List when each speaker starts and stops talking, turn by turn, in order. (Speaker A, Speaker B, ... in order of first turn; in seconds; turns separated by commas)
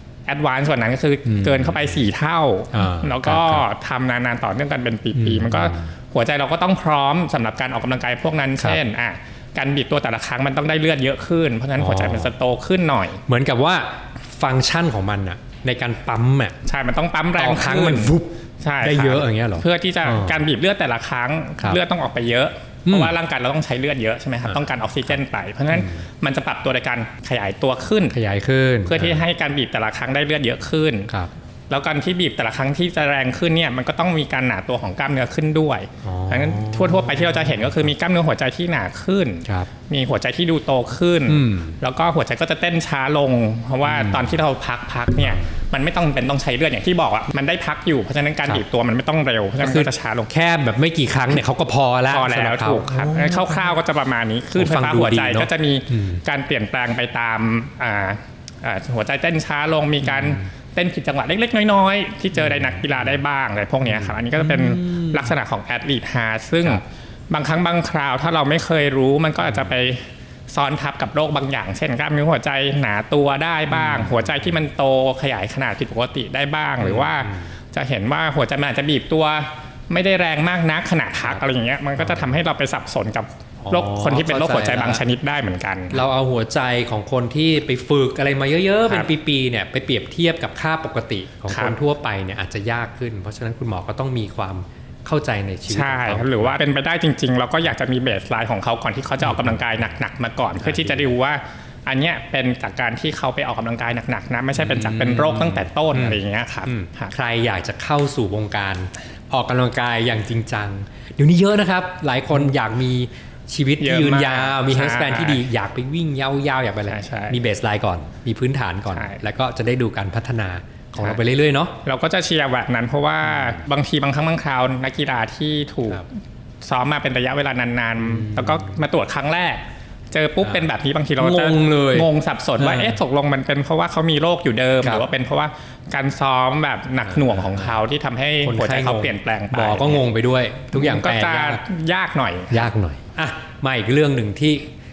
Speaker A: 0.3-13.2, Speaker B: 1.3-2.0, Speaker B: 2.7-3.6, Speaker B: 5.2-5.9, Speaker B: 11.8-12.3, Speaker B: 13.3-16.6, Speaker A: 16.7-28.2, Speaker B: 17.4-20.4, Speaker B: 22.9-23.1, Speaker B: 25.7-26.1, Speaker B: 28.1-29.2, Speaker A: 28.9-31.1, Speaker A: 31.7-50.3, Speaker B: 36.0-37.9, Speaker B: 39.5-39.7, Speaker B: 41.3-41.8, Speaker B: 43.9-44.4, Speaker B: 45.2-45.5, Speaker B: 49.6-53.8, Speaker A: 52.1-86.0, Speaker B: 54.5-56.2, Speaker B: 60.0-60.4, Speaker B: 62.4-63.2, Speaker B: 63.9-65.3, Speaker B: 69.5-69.7, Speaker B: 73.7-74.6, Speaker B: 76.8-77.5, Speaker B: 82.0-82.3, Speaker B: 83.6-85.0, Speaker B: 85.9-96.6, Speaker A: 91.5-91.8, Speaker A: 95.7-107.1, Speaker B: 99.2-99.8, Speaker B: 100.6-101.1, Speaker B: 104.6-121.8, Speaker A: 113.8-115.4, Speaker A: 116.9-117.4, Speaker A: 121.8-126.1, Speaker B: 123.2-123.6, Speaker A: 126.6-140.0, Speaker B: 128.0-128.8, Speaker B: 130.4-130.7, Speaker B: 131.2-132.1, Speaker B: 132.6-133.0, Speaker B: 137.1-137.8, Speaker B: 138.4-141.6, Speaker A: 140.7-142.7, Speaker B: 142.5-144.7